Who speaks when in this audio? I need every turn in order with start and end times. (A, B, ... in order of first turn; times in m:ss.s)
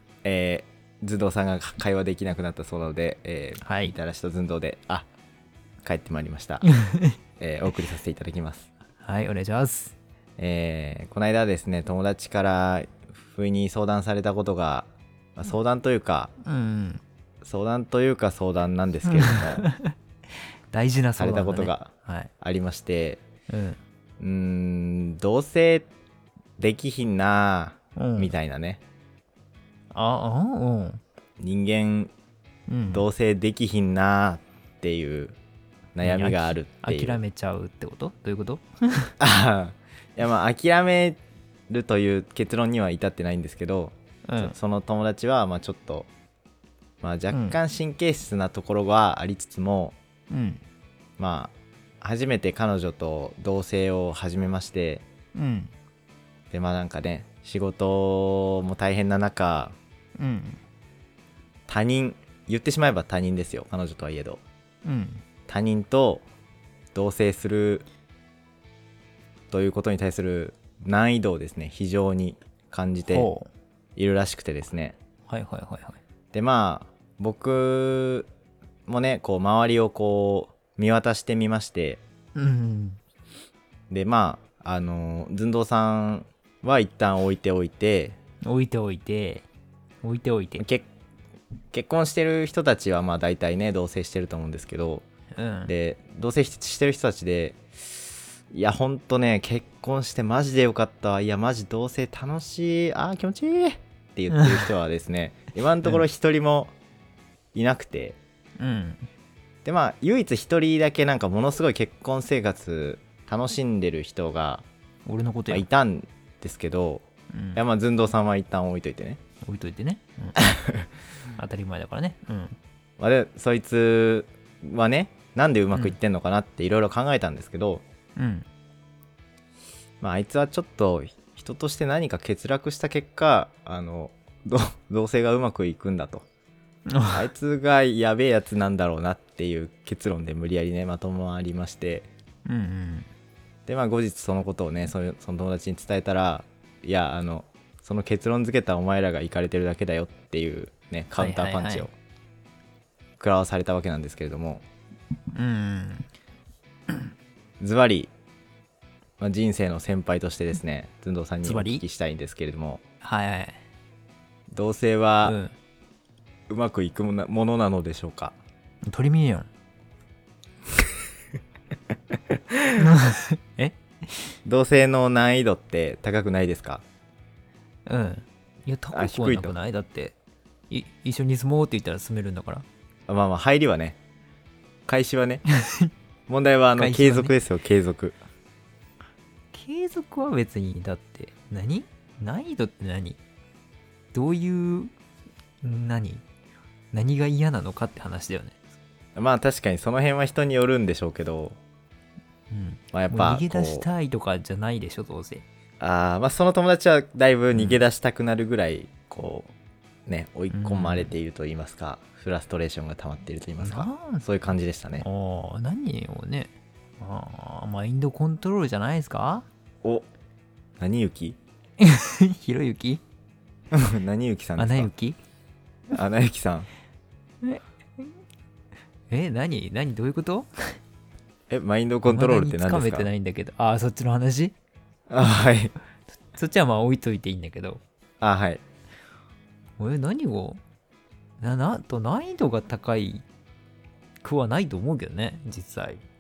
0:00.2-0:05.1 A
0:03.6-0:04.0 B
0:05.8-0:06.7 A
0:06.6-0:07.2 B
0:07.4-0:08.7 A
0:09.0-0:10.0 B
0:10.4-0:16.3 A
0:16.4-0:17.0 B
0:17.4-0:19.7 A
0:19.1-0:19.9 B
0:20.7-0:22.3 B
0:21.2-0:23.2 A
0:23.5-0:23.8 B
0:24.2-0:25.9 A
0:26.6-0:28.8 A
0:28.0-0:28.3 B
0:29.9-0:31.0 B
0:31.4-0:32.1 A
0:32.7-0:33.1 B
0:32.9-0:35.4 A
0:36.0-0:37.2 A
0:36.0-0:39.1 B
0:39.2-0:46.1 A
0:44.3-0:44.6 B
0:47.0-0:50.0 A
0:47.3-0:47.6 B
0:50.3-0:50.6 B
0:51.2-0:55.0 A
0:55.4-0:55.7 B
0:56.5-0:59.8 A
1:00.2-1:00.6 B
1:01.7-1:04.4 A
1:04.8-1:05.2 B
1:05.5-1:06.2 A
1:06.9-1:07.8 A
1:09.5-1:13.3 A
1:13.1-1:13.5 B
1:14.0-1:15.0 A
1:15.3-1:16.0 B
1:16.3-1:18.3 A
1:18.9-1:22.0 A
1:22.4-1:23.0 B
1:23.9-1:28.2 A
1:28.4-1:29.5 B
1:30.0-1:30.6 B
1:30.6-1:30.9 A
1:31.7-1:35.0 A
1:35.4-1:35.7 B
1:35.7-1:37.6 A
1:38.5-1:46.7 A
1:47.5-1:48.2 A
1:48.6-1:49.1 B
1:49.6-1:54.6 A
1:55.1-1:55.6 B
1:55.5-1:59.2 A
1:57.3-1:57.6 B
1:59.4-2:00.4 B
2:00.4-2:00.8 A
2:01.4-2:02.6 B
2:03.0-2:07.8 A
2:08.2-2:08.5 B
2:10.0-2:16.2 A
2:16.9-2:17.2 B
2:17.1-2:22.1 A
2:22.5-2:23.1 B
2:23.7-2:31.9 A
2:31.2-2:31.9 B
2:33.2-2:34.6 A
2:35.3-2:36.1 B
2:37.6-2:38.1 A
2:39.2-2:42.8 A
2:41.4-2:41.8 B
2:43.0-2:43.6 B
2:44.5-2:45.4 A
2:45.2-2:45.6 B
2:46.5-2:48.4 A
2:48.9-2:49.5 B
2:52.8-2:54.3 B
2:54.4-2:56.8 A
2:57.9-3:00.2 B
2:58.9-2:59.6 A
3:00.7-3:02.7 B
3:03.1-3:04.0 A
3:04.9-3:05.4 A
3:05.5-3:05.9 B
3:06.3-3:08.2 A
3:06.8-3:07.3 B
3:09.5-3:13.2 B
3:14.1-3:14.9 B
3:15.6-3:16.2 B
3:16.9-3:18.6 B
3:19.2-3:21.6 A
3:22.5-3:25.4 B
3:22.9-3:23.9 A
3:25.8-3:29.5 A
3:27.5-3:27.8 B
3:30.1-3:35.0 A
3:30.5-3:31.1 B
3:33.6-3:34.3 B
3:35.0-3:39.5 B
3:40.8-3:41.4 A
3:41.8-3:43.0 B
3:43.7-3:44.9 A
3:44.6-3:45.2 B
3:45.9-3:46.7 A
3:47.4-3:48.0 B
3:49.1-3:50.5 B
3:51.5-3:53.1 A
3:52.1-3:54.5 B
3:55.1-3:55.7 A
3:56.3-3:57.8 B
3:58.2-3:58.6 A
3:59.8-4:00.6 B
4:01.4-4:03.2 B
4:04.2-4:06.0 B